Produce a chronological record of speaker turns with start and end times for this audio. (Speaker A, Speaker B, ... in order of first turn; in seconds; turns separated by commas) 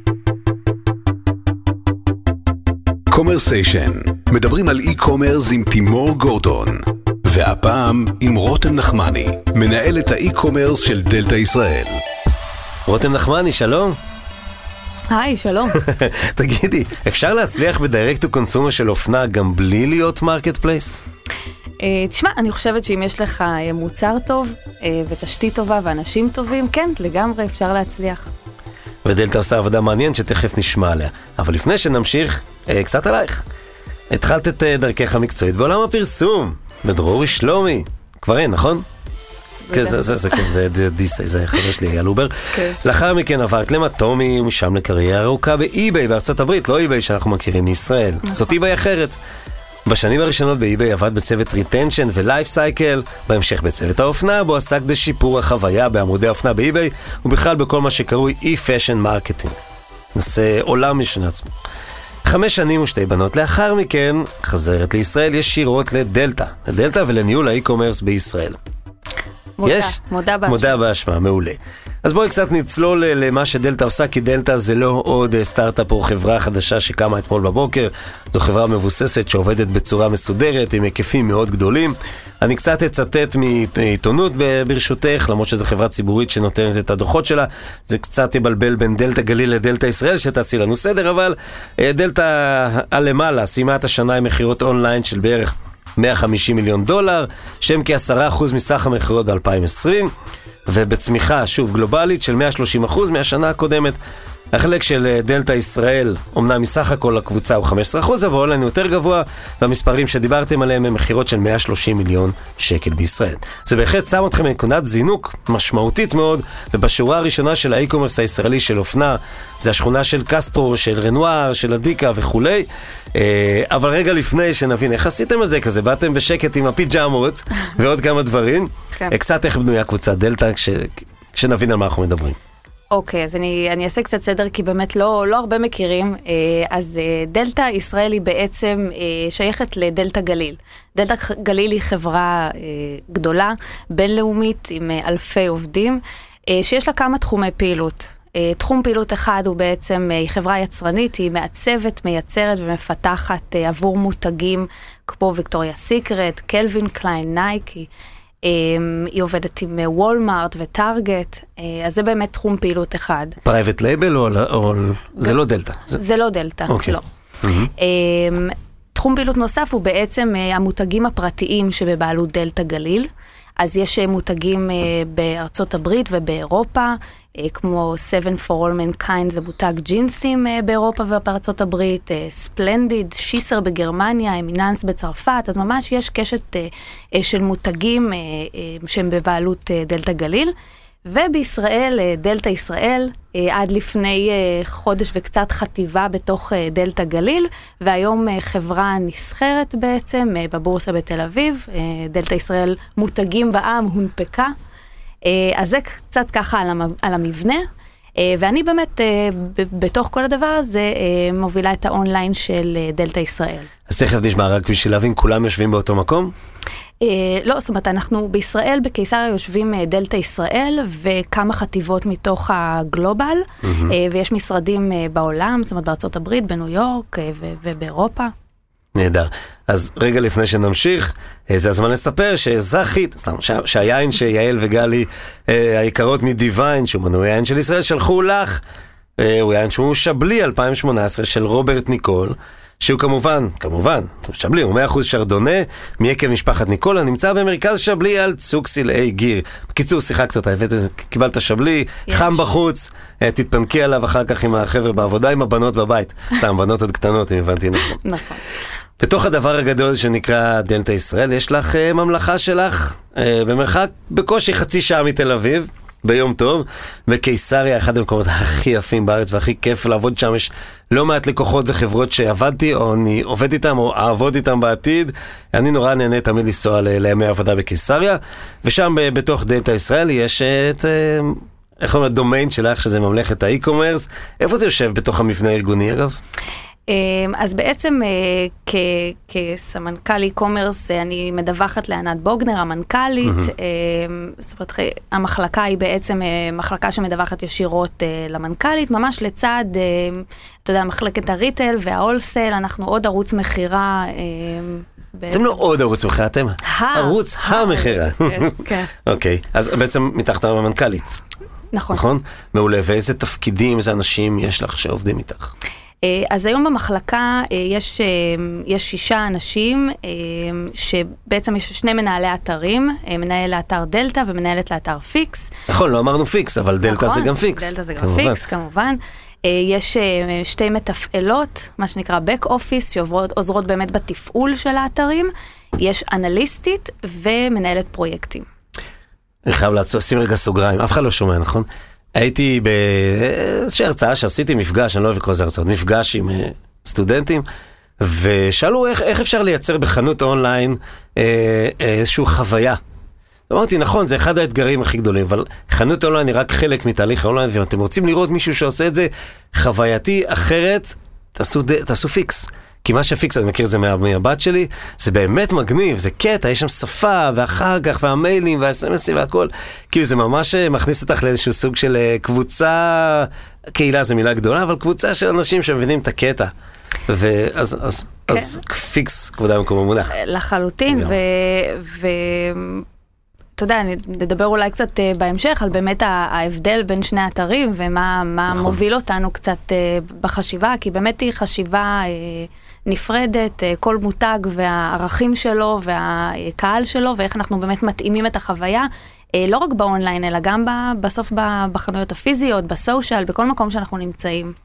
Speaker A: 3.1-12.0, Speaker B: 12.9-14.0, Speaker C: 15.1-15.8, Speaker B: 15.7-21.0, Speaker C: 21.8-28.3, Speaker B: 29.1-33.5, Speaker B: 34.1-38.9, Speaker C: 39.6-40.5, Speaker B: 39.7-49.2, Speaker C: 48.2-48.5, Speaker B: 49.9-59.6, Speaker B: 60.1-61.5, Speaker B: 62.2-68.6, Speaker C: 69.6-70.8, Speaker B: 69.6-100.1, Speaker B: 100.7-104.0, Speaker B: 104.5-132.4, Speaker C: 132.9-157.9, Speaker C: 158.4-163.4, Speaker B: 163.4-166.0, Speaker C: 165.9-167.1, Speaker B: 166.7-167.7, Speaker C: 167.8-173.1, Speaker C: 173.6-190.5, Speaker C: 191.1-204.5, Speaker C: 205.2-207.7, Speaker C: 208.2-213.7, Speaker B: 213.9-216.3, Speaker C: 217.0-228.3, Speaker B: 223.6-223.9, Speaker B: 228.9-238.6, Speaker B: 239.2-258.0, Speaker C: 252.1-252.4, Speaker C: 258.0-258.4, Speaker B: 259.0-286.2, Speaker C: 286.9-305.7, Speaker B: 293.2-293.5, Speaker B: 305.3-311.2, Speaker C: 306.6-308.9, Speaker C: 311.7-312.0, Speaker B: 311.9-315.5, Speaker C: 316.0-325.5, Speaker B: 325.7-328.4, Speaker C: 326.9-338.5, Speaker B: 339.5-347.5, Speaker B: 348.0-352.8, Speaker B: 353.5-376.5, Speaker B: 377.1-380.1, Speaker C: 380.1-382.9, Speaker B: 380.9-381.1, Speaker C: 383.6-404.6, Speaker B: 388.5-388.8